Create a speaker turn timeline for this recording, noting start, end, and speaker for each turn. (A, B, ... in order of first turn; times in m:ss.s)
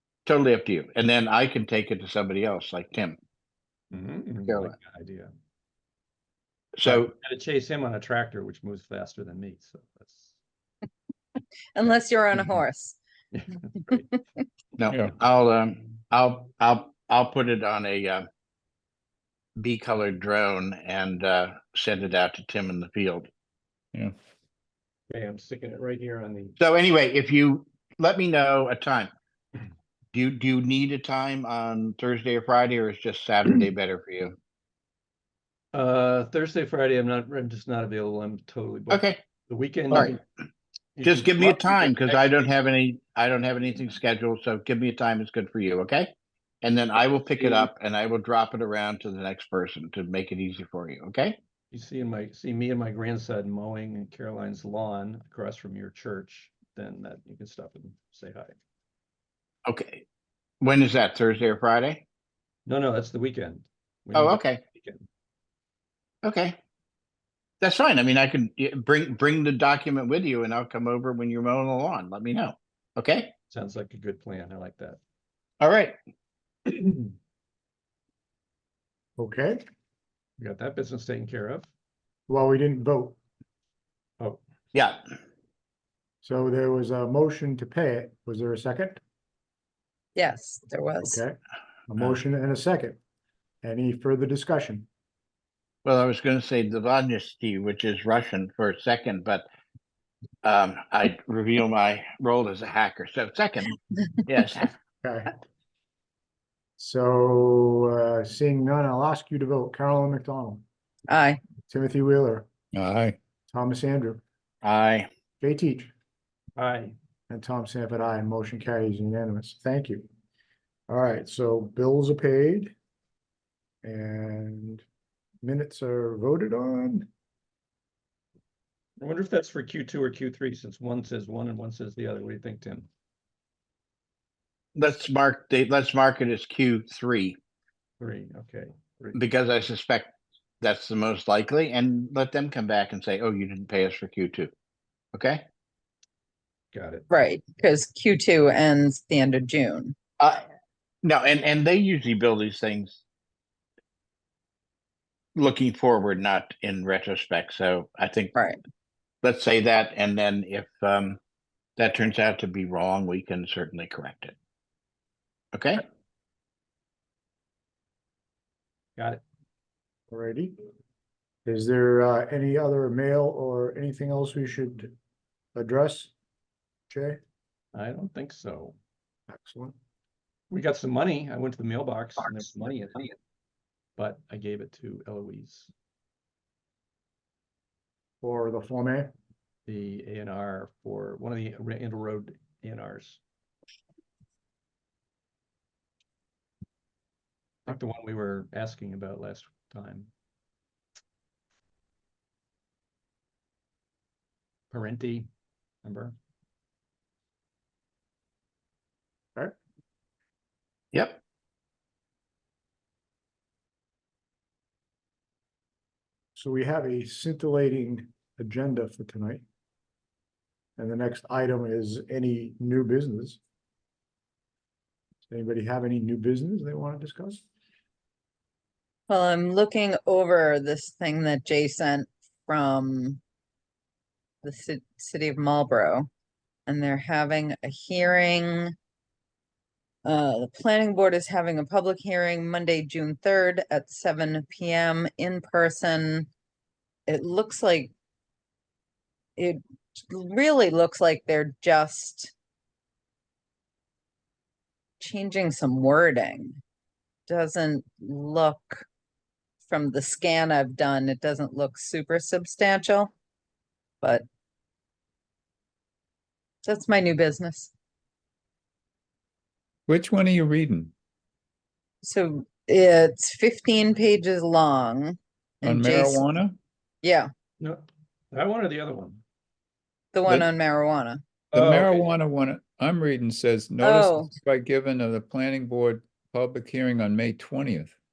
0:00.2-0:03.2 A
0:03.9-0:05.3 B
0:06.8-0:07.1 A
0:06.8-0:10.4 B
0:11.7-0:13.0 C
0:13.3-0:14.0 B
0:13.9-0:14.4 C
0:14.8-0:18.3 A
0:19.6-0:23.3 A
0:25.1-0:26.6 B
0:26.6-0:29.1 A
0:30.1-0:34.3 A
0:35.7-0:40.2 B
0:38.9-0:39.2 A
0:41.0-0:42.4 B
0:41.0-0:46.1 A
0:46.6-0:51.4 A
0:47.4-0:47.7 B
0:51.7-0:58.6 B
0:59.6-1:00.0 A
1:00.6-1:02.0 A
1:02.6-1:05.0 B
1:04.1-1:04.6 A
1:06.2-1:06.6 A
1:07.6-1:13.3 A
1:13.5-1:15.0 B
1:15.6-1:16.0 A
1:16.7-1:17.1 B
1:19.2-1:19.6 D
1:20.4-1:21.7 B
1:22.3-1:23.2 D
1:24.7-1:25.0 A
1:26.2-1:29.0 D
1:30.2-1:31.2 C
1:31.0-1:31.4 D
1:31.9-1:33.0 D
1:33.6-1:34.9 D
1:35.8-1:39.4 A
1:40.4-1:43.7 A
1:44.2-1:44.7 A
1:45.0-1:45.3 D
1:46.8-1:50.6 D
1:51.1-1:51.4 C
1:51.7-1:52.4 D
1:52.7-1:53.2 E
1:53.5-1:54.2 D
1:54.6-1:55.1 A
1:55.4-1:55.9 D
1:56.6-1:56.9 B
1:57.3-2:00.0 D
2:00.9-2:02.7 D
2:03.8-2:04.8 D
2:05.4-2:07.1 D
2:09.0-2:12.9 B
2:14.8-2:17.4 A
2:18.0-2:19.2 B
2:19.1-2:24.5 A
2:25.1-2:25.4 A
2:26.7-2:27.0 B
2:27.1-2:30.0 C
2:30.2-2:30.4 A
2:31.0-2:33.0 A
2:35.3-2:38.3 A
2:39.2-2:41.2 A
2:41.8-2:44.3 A
2:45.5-2:45.8 A
2:49.0-2:49.2 B
2:50.1-2:50.6 D
2:51.4-2:54.9 D
2:55.5-2:56.1 D
2:56.9-2:57.2 D
2:57.7-2:58.8 B
2:59.3-2:59.8 D
3:00.5-3:03.1 B
3:04.0-3:05.7 B
3:08.2-3:09.1 D
3:09.7-3:13.2 B
3:17.6-3:20.1 B
3:24.7-3:25.3 B
3:25.8-3:26.1 B
3:30.9-3:31.2 A
3:36.4-3:39.4 D
3:40.8-3:43.4 D
3:45.3-3:47.4 D
3:49.1-3:53.2 C
3:54.4-3:56.1 C
3:56.7-3:58.7 C
4:00.0-4:06.3 C
4:07.1-4:07.9 C
4:09.4-4:12.3 C
4:15.0-4:16.6 C
4:17.3-4:18.8 C
4:19.6-4:23.1 C
4:26.6-4:27.7 C
4:29.9-4:30.9 E
4:32.0-4:36.2 C
4:35.6-4:36.6 E
4:37.0-4:37.3 C
4:37.6-4:39.2 B
4:40.1-4:41.2 C
4:41.5-4:47.9 E
4:41.5-4:42.1 B
4:43.8-4:44.3 C